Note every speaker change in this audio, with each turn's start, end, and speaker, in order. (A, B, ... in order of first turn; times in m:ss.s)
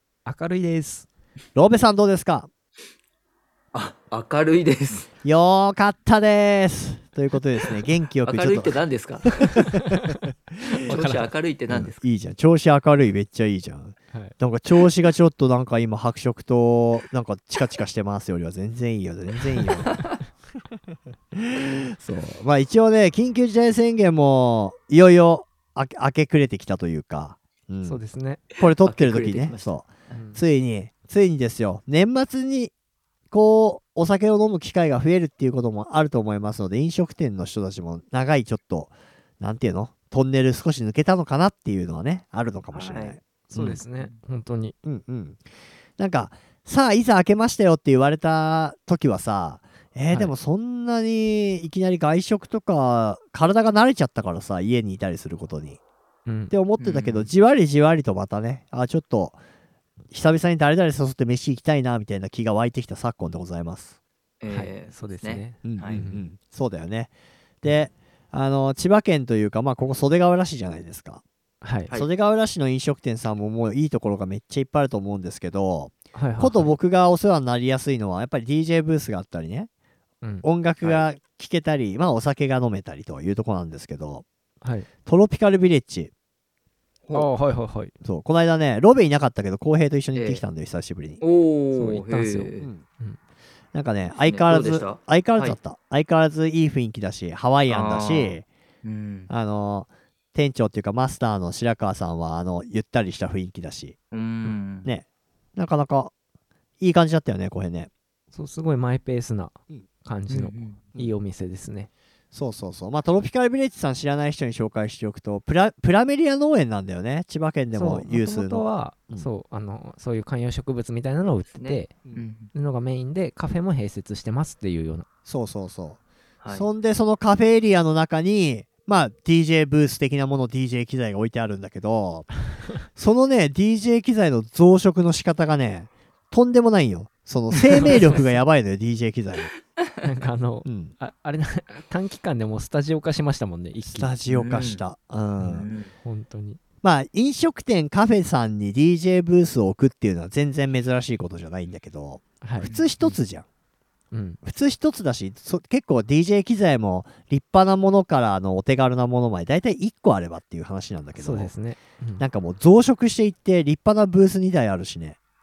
0:00.3-0:01.1 A
0:01.6-0:02.5 B
0:03.7-0:05.1 C
0:05.2-0:08.8 B
0:08.2-0:09.7 C
0:09.7-0:11.3 A
0:10.7-0:11.0 B
0:10.8-0:12.0 C
0:11.7-0:20.0 B
0:19.6-0:20.1 C
0:21.3-0:28.0 B
0:27.8-0:28.4 A
0:28.6-0:32.7 B
0:28.8-0:29.9 C
0:30.1-0:30.4 A
0:33.3-0:43.8 B
0:42.7-0:43.2 C
0:43.5-0:44.8 A
0:43.9-0:44.2 C
0:44.8-0:45.4 B
0:46.0-0:55.8 B
0:56.3-0:56.5 A
0:56.5-0:59.4 B
0:56.8-0:57.3 C
1:00.1-1:04.0 B
1:04.4-1:06.0 C
1:04.5-1:06.3 A
1:05.6-1:11.2 B
1:11.6-1:11.9 A
1:11.9-1:19.7 B
1:16.1-1:16.7 A
1:20.4-1:24.2 B
1:20.8-1:21.1 C
1:24.6-1:24.9 A
1:25.1-1:26.1 B
1:27.1-1:27.9 A
1:28.0-1:31.2 B
1:30.1-1:30.5 C
1:31.2-1:32.7 C
1:31.7-1:33.2 A
1:32.6-1:32.8 B
1:33.7-1:38.5 B
1:34.2-1:35.6 C
1:37.7-1:39.3 C
1:39.3-1:44.0 B
1:44.1-1:44.9 C
1:45.6-1:46.1 B
1:46.8-1:47.9 B
1:48.3-1:51.9 A
1:50.3-1:50.8 C
1:52.3-1:59.3 B
1:57.7-2:01.9 A
2:01.5-2:02.5 C
2:02.5-2:05.1 A
2:05.3-2:12.4 B
2:06.4-2:06.7 C
2:12.9-2:19.5 B
2:17.8-2:18.4 A
2:20.0-2:24.1 A
2:20.6-2:21.0 B
2:23.8-2:25.7 B
2:24.3-2:24.8 C
2:25.4-2:26.6 A
2:25.5-2:25.9 C
2:26.8-2:33.5 B
2:32.4-2:32.7 A
2:32.6-2:33.2 C
2:34.1-2:34.4 A
2:34.4-2:41.5 B
2:41.2-2:42.2 A
2:42.2-2:45.2 B